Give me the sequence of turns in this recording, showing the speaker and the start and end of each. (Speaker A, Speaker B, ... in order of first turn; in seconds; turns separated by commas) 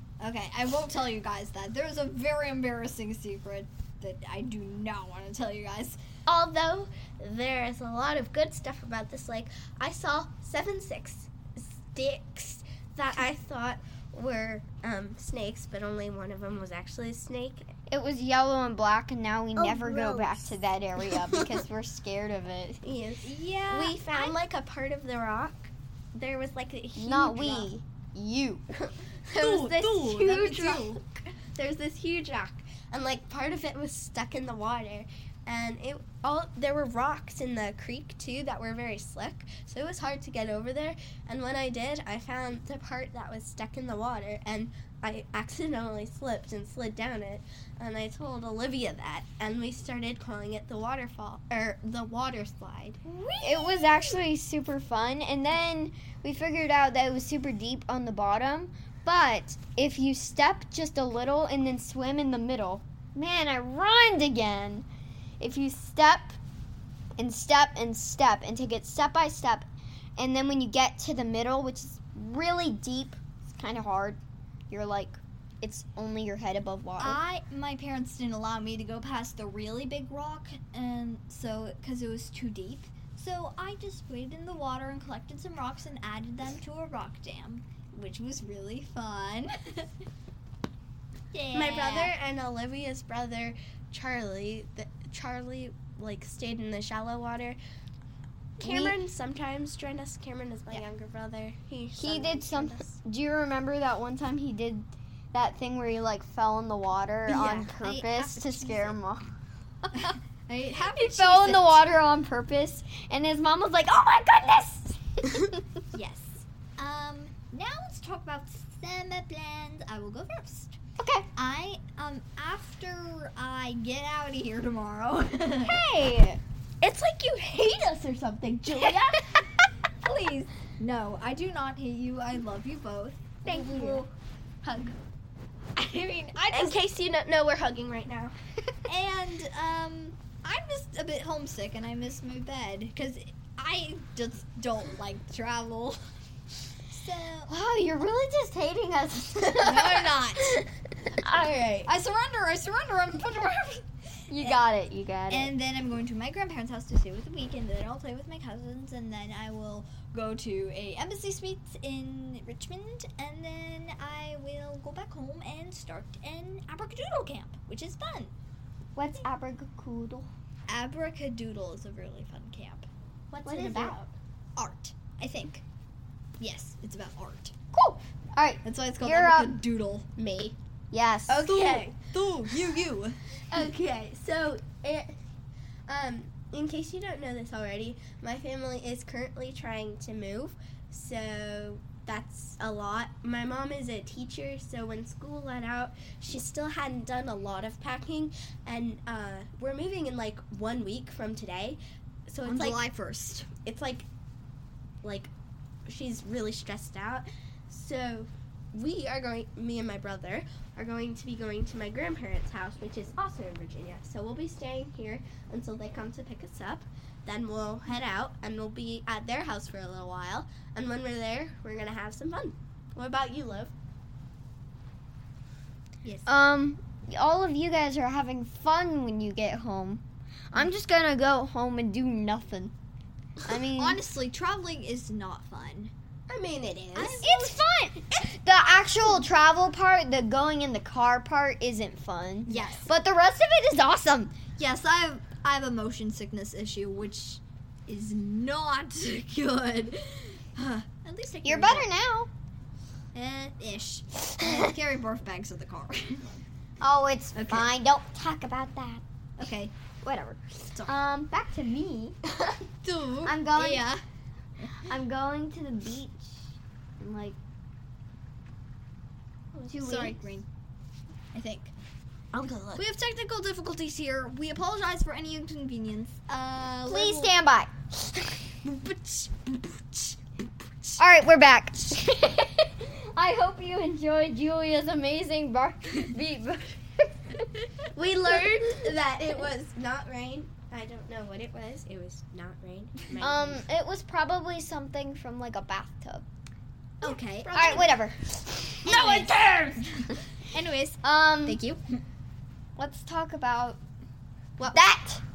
Speaker A: 0.2-6.0, Speaker B: 6.3-17.7, Speaker C: 17.9-22.8, Speaker B: 19.6-21.5, Speaker B: 22.8-27.7, Speaker A: 23.2-24.0, Speaker C: 26.9-28.6, Speaker B: 28.8-30.2, Speaker A: 29.4-31.0, Speaker C: 29.4-31.0, Speaker B: 31.5-53.0, Speaker A: 53.0-54.2, Speaker C: 53.4-64.8, Speaker C: 65.4-66.4, Speaker C: 67.2-74.2, Speaker C: 74.7-77.2, Speaker A: 77.0-89.9, Speaker A: 91.3-92.1, Speaker B: 91.5-97.6, Speaker C: 98.6-99.0, Speaker B: 98.6-103.0, Speaker C: 102.0-109.3, Speaker A: 107.3-109.0, Speaker A: 109.9-111.9, Speaker C: 110.9-115.8, Speaker A: 115.9-120.8, Speaker C: 121.0-121.3, Speaker A: 121.3-125.8, Speaker C: 125.6-126.4, Speaker B: 126.8-129.4, Speaker A: 130.0-134.1, Speaker C: 133.4-134.1, Speaker A: 134.6-134.9, Speaker A: 135.8-136.8, Speaker B: 136.5-138.3, Speaker A: 138.8-146.0, Speaker A: 146.9-147.5, Speaker C: 147.5-150.0, Speaker A: 149.6-150.6, Speaker B: 151.2-151.9, Speaker A: 151.8-154.6, Speaker C: 154.3-155.5, Speaker A: 155.3-168.3, Speaker C: 168.9-170.3, Speaker A: 170.7-172.9, Speaker B: 173.3-174.1, Speaker C: 173.5-173.9, Speaker A: 173.5-173.9, Speaker A: 174.6-175.6, Speaker A: 176.4-177.5, Speaker C: 177.7-179.6, Speaker A: 178.6-180.1, Speaker B: 180.2-180.6, Speaker C: 180.9-181.5, Speaker B: 181.3-182.0, Speaker A: 181.5-183.2, Speaker B: 183.5-185.2, Speaker B: 185.9-202.9, Speaker A: 202.4-203.5, Speaker B: 203.6-204.1, Speaker B: 205.0-205.3, Speaker B: 205.8-223.7, Speaker C: 226.2-232.7, Speaker C: 233.5-234.0, Speaker A: 233.8-235.9, Speaker B: 236.3-237.2, Speaker A: 236.9-237.6, Speaker C: 237.2-244.3, Speaker A: 239.0-239.2, Speaker A: 242.4-242.9, Speaker A: 244.6-251.9, Speaker C: 251.4-252.3, Speaker A: 253.1-256.3, Speaker C: 256.8-259.0, Speaker A: 257.3-257.7, Speaker A: 259.4-259.7, Speaker C: 260.0-262.1, Speaker A: 262.8-264.0, Speaker C: 263.2-263.9, Speaker C: 264.9-267.4, Speaker B: 269.5-270.1, Speaker C: 269.7-270.1, Speaker A: 269.8-270.4, Speaker A: 271.3-271.7, Speaker B: 272.3-272.8, Speaker A: 272.7-277.3, Speaker C: 276.9-278.2, Speaker A: 278.6-280.2, Speaker C: 281.0-287.4, Speaker B: 287.9-293.6, Speaker C: 293.2-296.2, Speaker B: 297.0-297.9, Speaker A: 297.0-297.6, Speaker C: 297.5-299.5, Speaker A: 298.8-301.8, Speaker C: 301.0-301.6, Speaker C: 302.8-303.8, Speaker C: 304.7-305.2